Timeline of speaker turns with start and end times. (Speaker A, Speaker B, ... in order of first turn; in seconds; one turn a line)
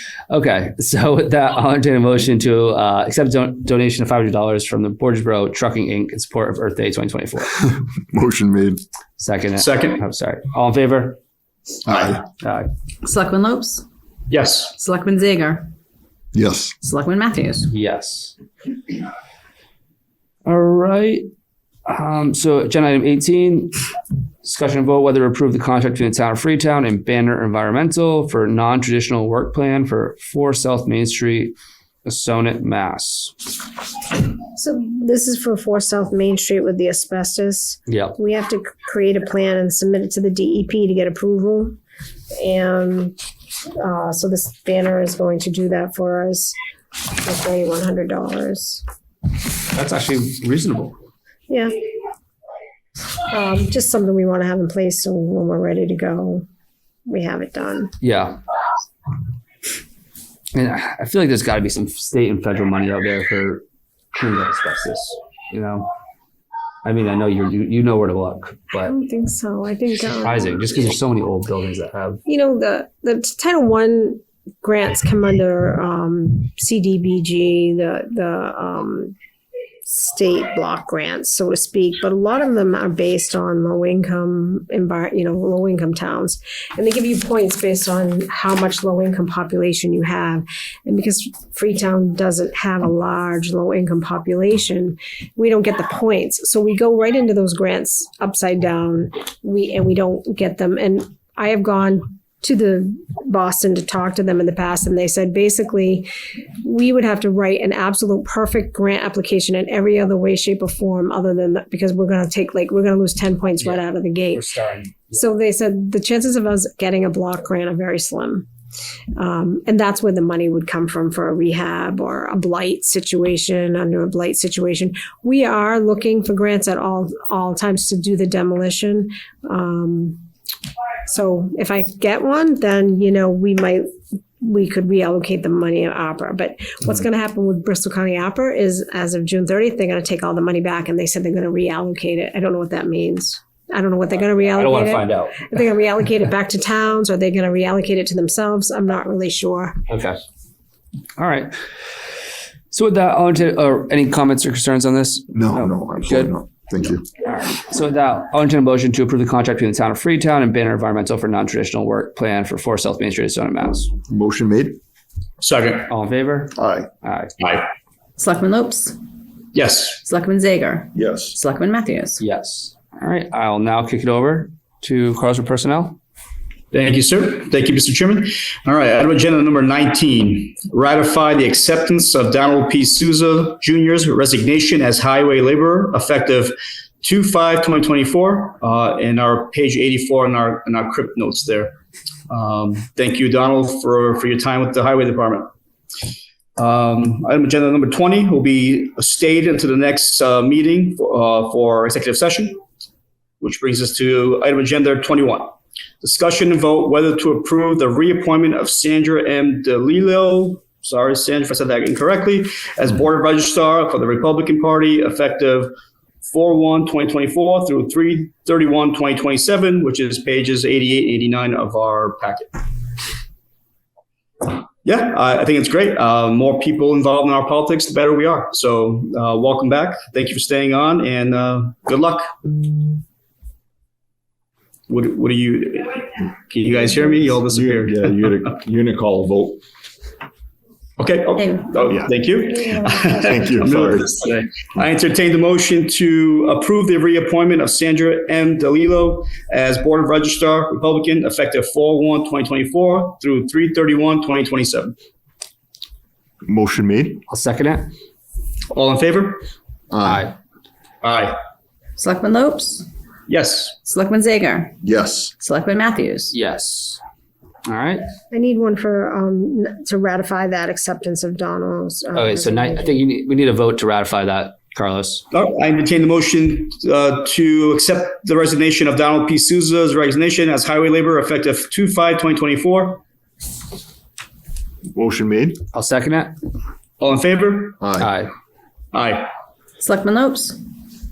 Speaker A: 0.3-7.6
Speaker B: 8.1-8.8
Speaker A: 9.2-11.2
Speaker C: 9.6-10.0
Speaker B: 11.9-12.2
Speaker A: 12.4-12.7
Speaker D: 13.0-13.9
Speaker C: 14.3-14.8
Speaker D: 14.8-15.7
Speaker B: 16.3-16.8
Speaker D: 16.8-17.7
Speaker A: 17.7-18.4
Speaker A: 20.5-21.3
Speaker A: 21.9-23.8
Speaker A: 24.4-31.5
Speaker A: 32.0-33.4
Speaker E: 34.5-41.8
Speaker A: 37.9-38.2
Speaker E: 42.4-43.2
Speaker E: 43.8-46.6
Speaker E: 47.2-48.8
Speaker A: 49.7-51.0
Speaker E: 53.3-56.5
Speaker E: 57.1-57.9
Speaker A: 58.0-58.4
Speaker A: 60.5-65.9
Speaker A: 66.8-68.9
Speaker E: 68.8-70.6
Speaker A: 70.1-72.2
Speaker E: 72.3-79.1
Speaker E: 79.9-106.1
Speaker E: 106.6-114.5
Speaker A: 113.6-115.2
Speaker E: 115.1-118.5
Speaker E: 119.2-130.2
Speaker E: 131.1-133.8
Speaker E: 134.4-149.8
Speaker A: 144.5-145.5
Speaker A: 149.9-150.2
Speaker A: 151.2-151.5
Speaker A: 152.7-156.3
Speaker B: 155.3-157.1
Speaker A: 157.2-163.9
Speaker B: 164.1-164.8
Speaker C: 165.4-165.9
Speaker A: 165.9-167.3
Speaker B: 166.6-166.9
Speaker C: 167.4-167.7
Speaker D: 168.2-169.0
Speaker C: 169.5-170.0
Speaker D: 170.0-172.2
Speaker B: 170.9-171.4
Speaker A: 172.2-176.0
Speaker C: 176.7-191.7
Speaker C: 192.3-195.5
Speaker C: 196.6-202.6
Speaker C: 203.4-215.7
Speaker C: 216.3-222.6
Speaker C: 224.4-232.3
Speaker C: 234.9-238.5
Speaker B: 237.2-239.6
Speaker C: 241.0-254.9
Speaker B: 243.2-244.2
Speaker B: 256.4-257.2
Speaker A: 257.3-257.9
Speaker C: 258.7-259.4
Speaker B: 259.9-260.3
Speaker A: 260.0-260.3
Speaker C: 261.0-261.4
Speaker D: 262.0-262.9
Speaker C: 263.3-263.8
Speaker D: 263.8-264.8
Speaker B: 264.8-265.3
Speaker D: 265.4-266.3
Speaker A: 266.3-267.0
Speaker A: 267.7-268.0
Speaker E: 268.3-273.0
Speaker A: 272.1-275.2
Speaker C: 275.3-283.0
Speaker B: 284.9-285.6
Speaker A: 285.7-286.4
Speaker C: 287.0-287.8
Speaker B: 287.8-288.1
Speaker A: 288.0-288.3
Speaker C: 288.9-289.3
Speaker D: 289.8-290.6